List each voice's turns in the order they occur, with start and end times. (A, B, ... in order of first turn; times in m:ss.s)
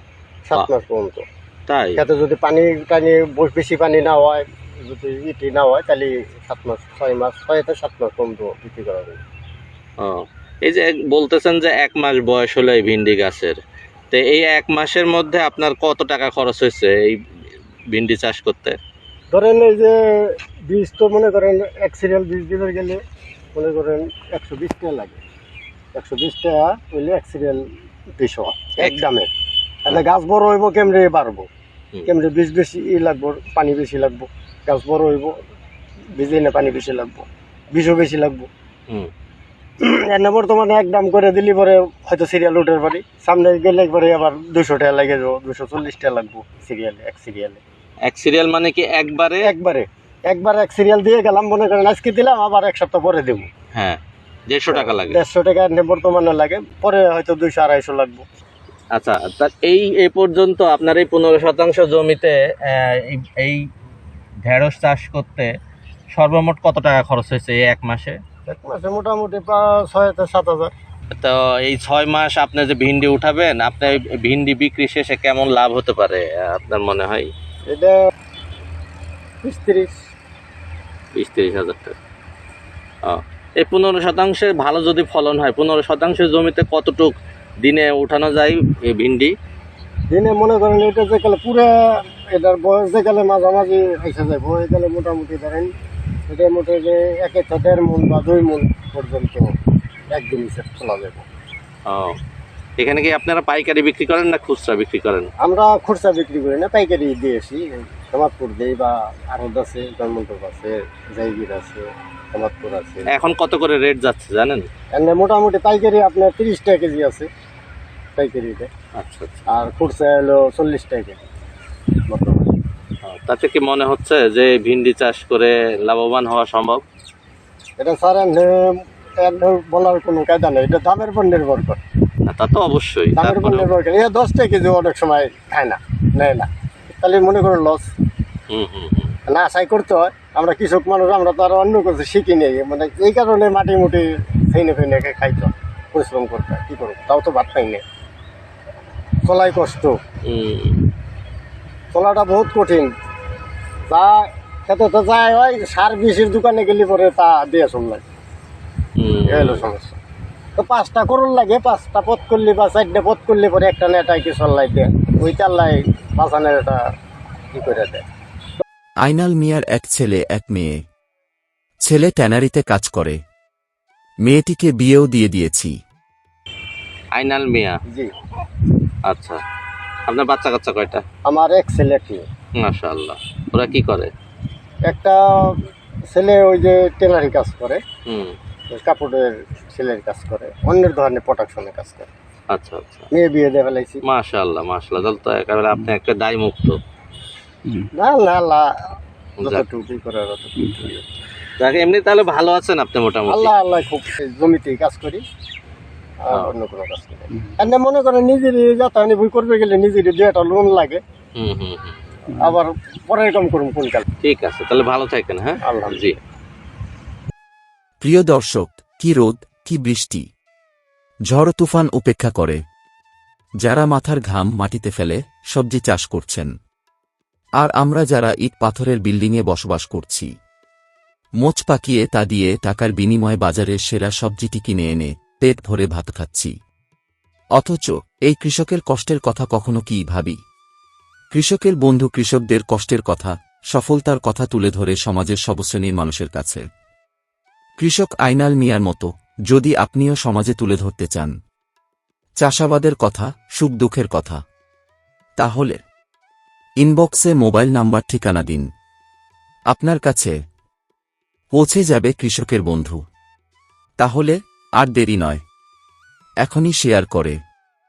0:00.4-0:01.2 A
0:01.7-0:02.0 B
0:02.0-0:09.2 A
0:10.0-0:13.6 B
0:14.1-0:17.2 B
0:17.9-0:18.8 B
0:19.3-0:23.0 A
0:23.5-0:25.2 A
0:25.9-0:27.6 A
0:28.2-0:29.3 A
0:29.8-0:31.5 A
0:32.0-0:35.3 A
0:36.2-0:38.5 A
0:39.8-0:47.6 A
0:48.0-0:49.5 B
0:49.4-0:53.5 A
0:53.7-0:55.2 B
0:54.7-0:58.2 A
0:58.9-1:03.7 B
1:04.4-1:05.5 B
1:06.1-1:08.2 B
1:08.5-1:10.7 A
1:11.1-1:17.3 B
1:17.7-1:18.0 A
1:19.4-1:20.0 A
1:21.2-1:21.9 B
1:23.0-1:29.3 B
1:30.1-1:31.7 A
1:32.3-1:35.7 A
1:36.3-1:39.5 A
1:40.1-1:41.2 A
1:41.9-1:42.2 B
1:42.8-1:45.3 B
1:45.4-1:53.1 A
1:53.1-1:54.7 B
1:54.9-1:57.3 A
1:58.2-1:58.7 A
1:59.0-1:59.5 B
1:59.5-2:01.2 A
2:02.1-2:02.5 A
2:03.0-2:06.8 B
2:07.8-2:11.8 A
2:12.2-2:13.7 B
2:13.2-2:17.9 A
2:18.5-2:19.1 B
2:19.3-2:27.8 A
2:29.2-2:30.0 A
2:30.2-2:30.8 B
2:31.9-2:32.9 A
2:33.9-2:38.0 A
2:39.0-2:39.6 B
2:39.3-2:40.0 A
2:40.6-2:46.8 A
2:47.5-2:48.0 A
2:49.0-2:50.8 C
2:51.8-2:53.2 C
2:54.2-2:55.7 C
2:57.1-2:57.8 B
2:59.1-2:59.4 B
3:00.1-3:01.0 B
3:01.2-3:02.2 A
3:02.6-3:04.1 B
3:04.8-3:05.5 A
3:06.1-3:07.8 A
3:08.1-3:08.3 B
3:08.7-3:12.1 A
3:12.5-3:13.1 B
3:13.1-3:14.0 A
3:14.0-3:16.8 B
3:17.9-3:18.7 A
3:19.4-3:21.0 A
3:21.6-3:23.5 B
3:23.3-3:25.2 A
3:26.2-3:31.0 A
3:31.4-3:32.0 B
3:32.4-3:34.0 A
3:34.2-3:36.2 B
3:35.6-3:36.0 A
3:38.0-3:40.2 C
3:41.3-3:42.6 C
3:43.6-3:46.5 C
3:47.6-3:50.3 C
3:51.4-3:56.5 C
3:57.6-4:00.4 C
4:01.3-4:06.6 C
4:07.8-4:11.3 C
4:12.4-4:14.4 C
4:15.4-4:15.8 C
4:16.8-4:18.7 C
4:19.7-4:20.3 C
4:21.5-4:23.0 C
4:24.0-4:25.4 C
4:26.4-4:27.4 C